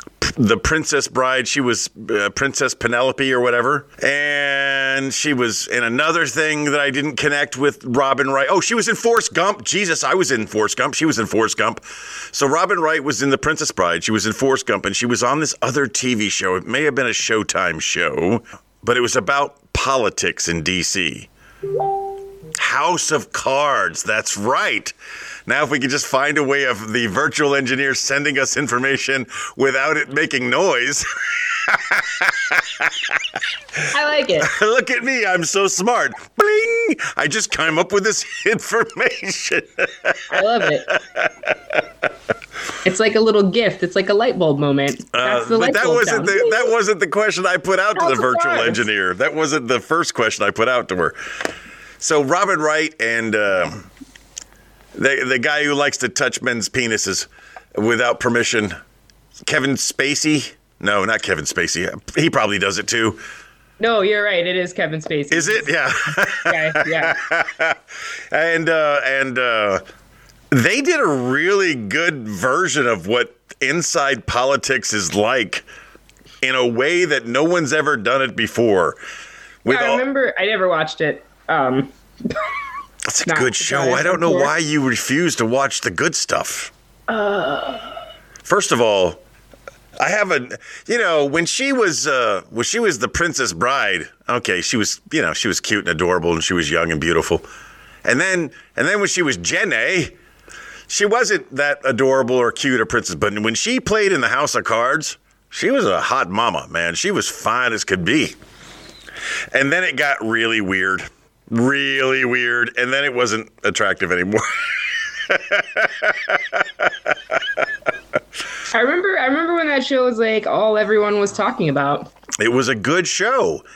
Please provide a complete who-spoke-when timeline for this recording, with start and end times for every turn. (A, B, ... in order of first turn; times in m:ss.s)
0:00.2-0:21.3 A
0:22.6-0:24.9 A
0:25.4-0:33.2 A
0:33.9-0:34.5 B
0:34.4-0:41.8 A
0:40.3-0:40.9 B
0:42.8-0:46.7 B
0:45.1-0:51.2 A
0:48.0-0:48.8 B
0:52.0-0:53.8 A
0:55.0-0:58.8 A
0:59.4-1:03.2 A
1:03.8-1:05.7 B
1:05.3-1:07.8 A
1:06.3-1:07.2 B
1:08.3-1:09.8 A
1:10.5-1:15.6 A
1:16.4-1:19.0 A
1:19.6-1:20.0 A
1:19.7-1:22.4 B
1:23.1-1:26.7 A
1:23.3-1:24.5 B
1:27.1-1:27.9 B
1:28.4-1:29.2 A
1:30.0-1:37.4 A
1:38.0-1:40.1 A
1:40.9-1:48.4 A
1:49.5-1:57.4 A
1:58.7-2:02.1 B
2:02.4-2:03.6 A